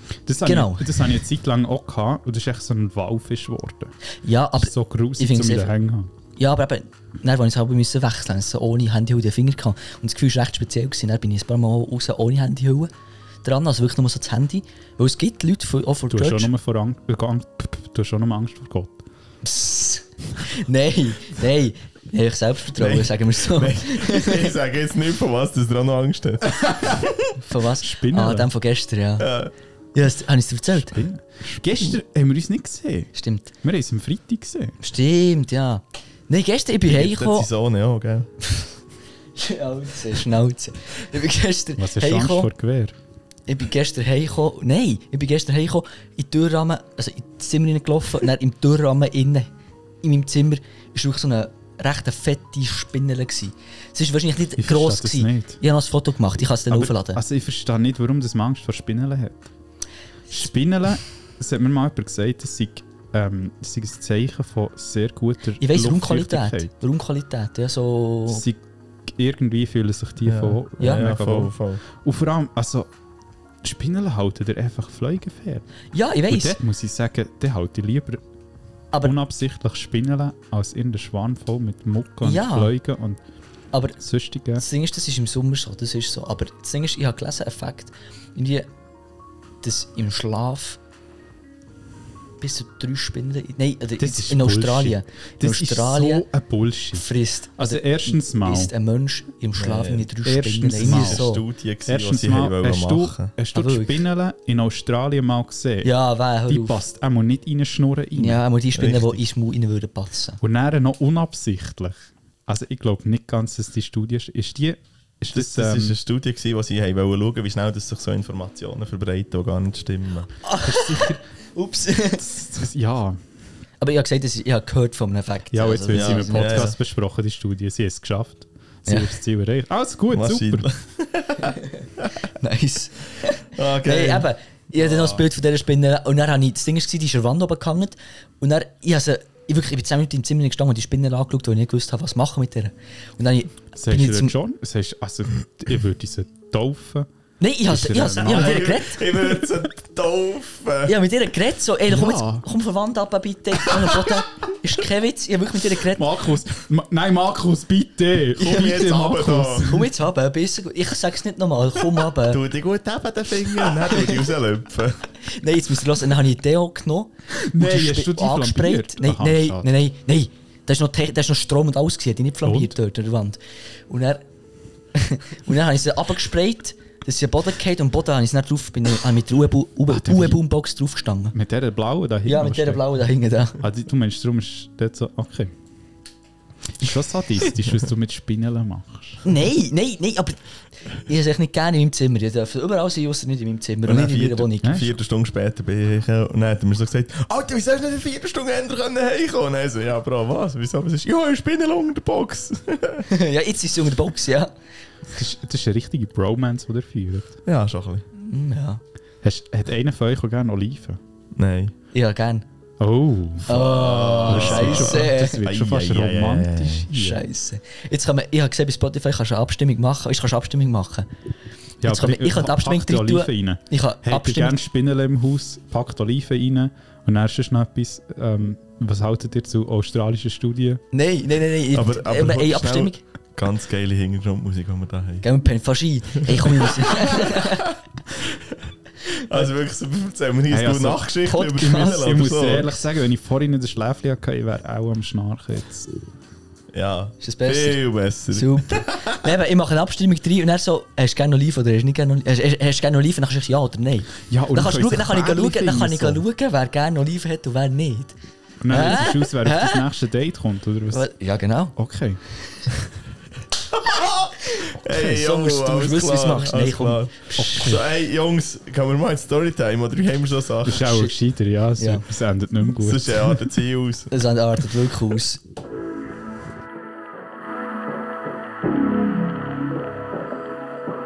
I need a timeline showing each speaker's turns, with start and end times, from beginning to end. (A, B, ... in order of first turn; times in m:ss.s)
0:00.3-0:03.9 A
0:00.4-0:01.0 B
0:04.2-0:05.7 B
0:04.6-0:06.1 A
0:06.4-0:12.9 B
0:13.4-0:16.5 B
0:16.1-0:19.0 A
0:19.4-0:24.5 B
0:22.8-0:27.1 C
0:27.4-0:29.3 B
0:27.8-0:28.5 A
0:29.2-0:29.5 C
0:29.9-0:31.0 B
0:30.8-0:34.8 A
0:33.2-0:33.5 B
0:34.8-0:37.5 B
0:36.9-0:38.3 C
0:39.4-0:42.5 B
0:41.8-0:43.0 A
0:43.5-0:49.5 B
0:50.0-0:57.2 B
0:54.6-0:55.6 A
0:56.7-0:59.5 A
1:00.3-1:06.7 A
1:05.6-1:08.4 B
1:08.3-1:08.6 A
1:09.1-1:12.9 A
1:10.2-1:11.8 C
1:13.6-1:15.6 A
1:15.9-1:16.6 B
1:16.3-1:18.2 A
1:19.0-1:23.2 A
1:22.2-1:22.7 B
1:23.7-1:24.0 B
1:24.0-1:24.6 A
1:24.6-1:28.7 B
1:29.6-1:30.8 B
1:32.4-1:36.2 B
1:34.0-1:37.1 A
1:36.9-1:41.4 B
1:37.6-1:38.7 A
1:39.6-1:40.1 C
1:40.2-1:41.3 A
1:40.8-1:43.3 C
1:41.9-1:45.9 A
1:43.5-1:44.0 B
1:45.8-1:46.8 B
1:46.5-1:48.4 A
1:48.2-1:50.4 B
1:48.8-1:49.2 C
1:50.4-1:56.0 A
1:55.3-2:00.3 C
2:00.4-2:02.2 B
2:00.6-2:01.2 A
2:02.2-2:03.2 A
2:03.8-2:06.7 B
2:05.5-2:10.7 A
2:05.9-2:06.8 C
2:08.9-2:09.2 B
2:10.1-2:12.1 C
2:11.4-2:24.4 B
2:13.5-2:15.2 C
2:23.8-2:27.1 A
2:27.4-2:29.0 B
2:27.7-2:28.7 A
2:28.2-2:31.0 C
2:30.9-2:36.1 B
2:31.9-2:32.4 A
2:35.9-2:39.9 A
2:38.4-2:39.7 C
2:38.4-2:38.8 B
2:39.6-2:42.4 B
2:42.2-2:45.1 C
2:43.8-2:44.1 B
2:45.2-2:54.2 B
2:47.4-2:49.7 A
2:52.4-2:52.8 A
2:54.9-3:01.4 B
2:59.9-3:00.4 A
3:01.3-3:03.0 A
3:02.3-3:03.6 B
3:03.6-3:05.5 A
3:06.8-3:09.2 A
3:09.2-3:14.8 B
3:13.9-3:23.1 C
3:14.6-3:15.0 A
3:23.1-3:24.5 B
3:25.1-3:27.4 A
3:27.5-3:28.0 C
3:28.2-3:28.8 B
3:29.2-3:31.0 A
3:31.4-3:31.7 C
3:31.9-3:32.4 B
3:32.8-3:33.5 A
3:33.5-3:35.4 B
3:33.5-3:37.0 C
3:34.3-3:37.2 A
3:36.9-3:41.1 B
3:41.8-3:50.8 A
3:41.8-3:44.6 B
3:50.9-3:53.0 B
3:51.7-3:55.2 C
3:55.2-3:57.7 B
3:56.3-3:57.5 C
3:58.2-4:02.8 C
4:00.5-4:01.1 A
4:01.3-4:02.1 B
4:01.8-4:05.9 A
4:06.7-4:09.2 C
4:07.2-4:07.8 B
4:08.3-4:18.2 B
4:14.3-4:16.2 A
4:18.6-4:21.0 A
4:18.7-4:19.8 B
4:20.9-4:21.8 B
4:21.8-4:22.2 A
4:23.7-4:31.0 C
4:24.6-4:27.8 B
4:27.4-4:27.8 A
4:30.6-4:33.4 A
4:30.9-4:31.2 B
4:31.8-4:32.0 B
4:32.7-4:34.1 C
4:34.1-4:35.4 B